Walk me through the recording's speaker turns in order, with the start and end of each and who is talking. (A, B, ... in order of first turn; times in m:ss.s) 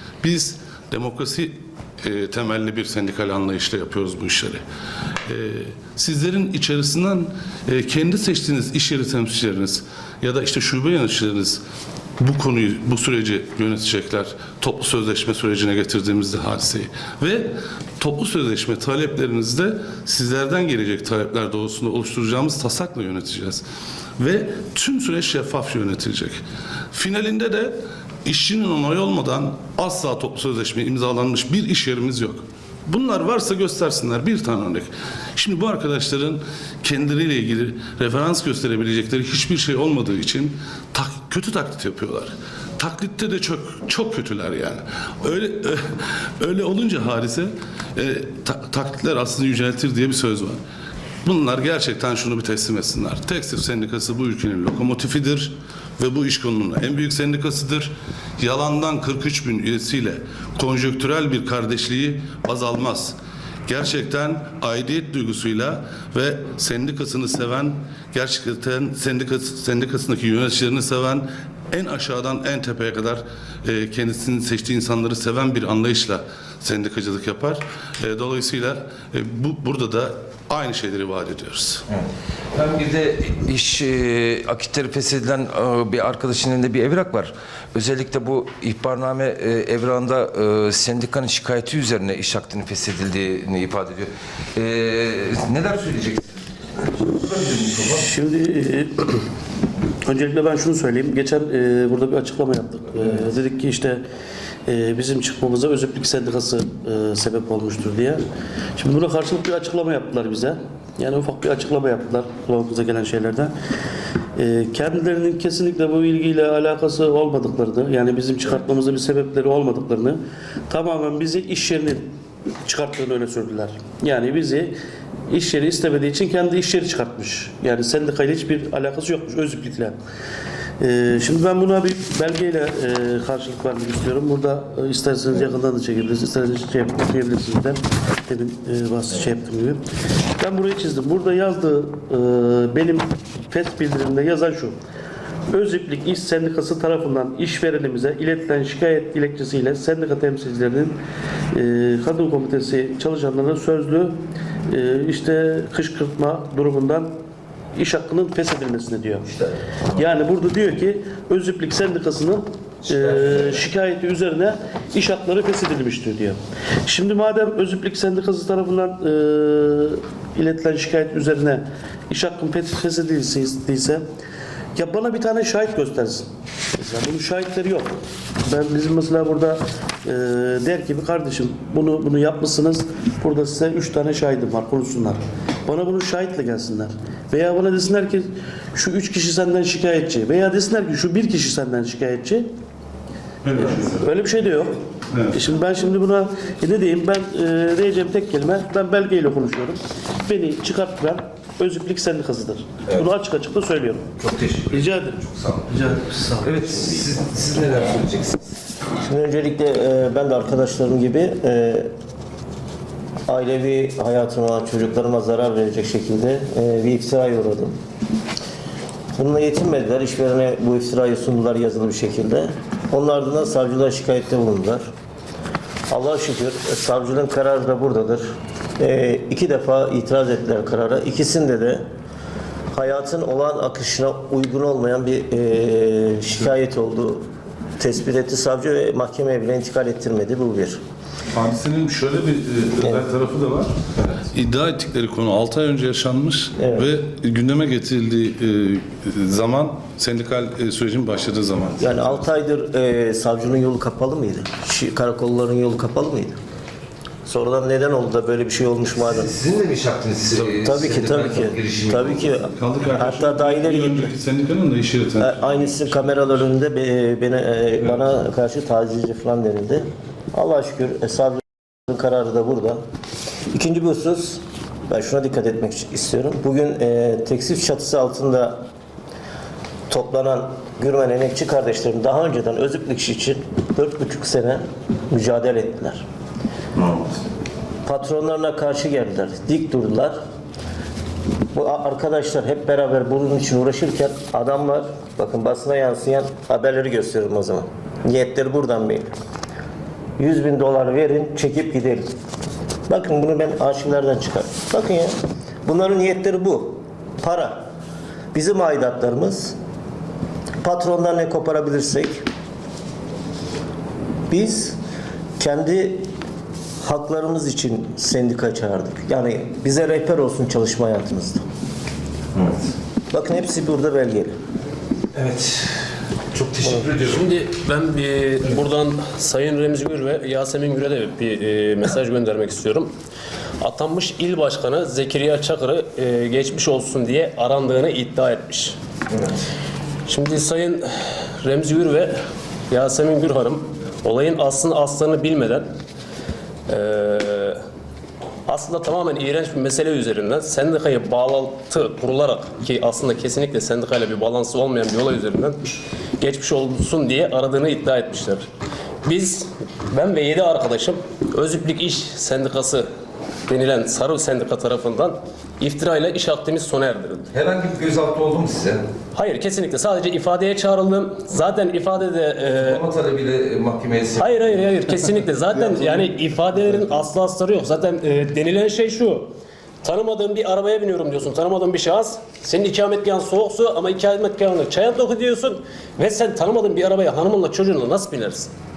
0:00.2-0:04.6 A
0:05.2-0:11.6 A
0:12.2-0:23.6 A
0:24.2-0:26.4 A
0:26.9-0:50.6 A
0:51.2-1:03.2 A
1:03.7-1:21.8 A
1:21.9-1:38.1 B
1:37.8-1:39.2 C
1:40.0-1:44.0 C
1:44.6-1:48.2 C
1:48.8-1:53.5 C
1:54.4-2:04.8 C
2:05.3-2:10.0 C
2:10.8-2:19.8 C
2:20.4-2:24.8 C
2:25.5-2:31.0 C
2:31.5-2:34.2 C
2:34.7-2:37.1 C
2:37.7-2:39.3 C
2:39.9-2:54.0 C
2:54.8-2:57.9 C
2:58.4-3:12.5 C
3:13.4-3:14.0 A
3:13.6-3:14.8 C
3:15.1-3:15.4 A
3:15.3-3:24.1 C
3:24.2-3:25.9 B
3:24.7-3:26.6 C
3:26.4-3:28.4 B
3:29.0-3:31.9 D
3:33.3-3:37.8 D
3:39.1-3:44.9 D
3:45.9-3:48.3 D
3:48.8-3:51.8 D
3:52.7-3:57.2 D
3:57.8-4:00.8 D
4:01.3-4:12.2 A
4:06.6-4:06.9 D
4:11.8-4:16.4 D
4:17.2-4:19.3 D
4:19.0-4:22.4 B
4:20.6-4:24.1 D
4:22.6-4:26.3 A
4:25.2-4:32.8 D
4:33.5-4:38.6 D
4:39.9-4:46.0 D
4:47.8-4:50.2 D
4:51.5-4:59.1 D
5:00.2-5:02.1 D
5:02.9-5:05.1 D
5:05.6-5:07.7 D
5:08.3-5:09.5 D
5:10.6-5:12.2 D
5:14.3-5:14.8 D
5:15.4-5:16.1 D
5:16.8-5:21.4 D
5:23.1-5:24.4 D
5:25.1-5:25.7 B
5:26.3-5:27.2 B
5:26.9-5:32.9 E
5:33.6-5:38.8 E
5:40.0-5:42.2 E
5:42.7-5:45.7 E
5:46.7-5:47.6 E
5:48.5-5:58.5 E
5:59.0-6:02.9 E
6:03.5-6:07.3 E
6:07.3-6:08.8 B
6:09.1-6:12.8 E
6:12.5-6:14.5 B
6:14.2-6:19.3 E
6:19.8-6:28.5 E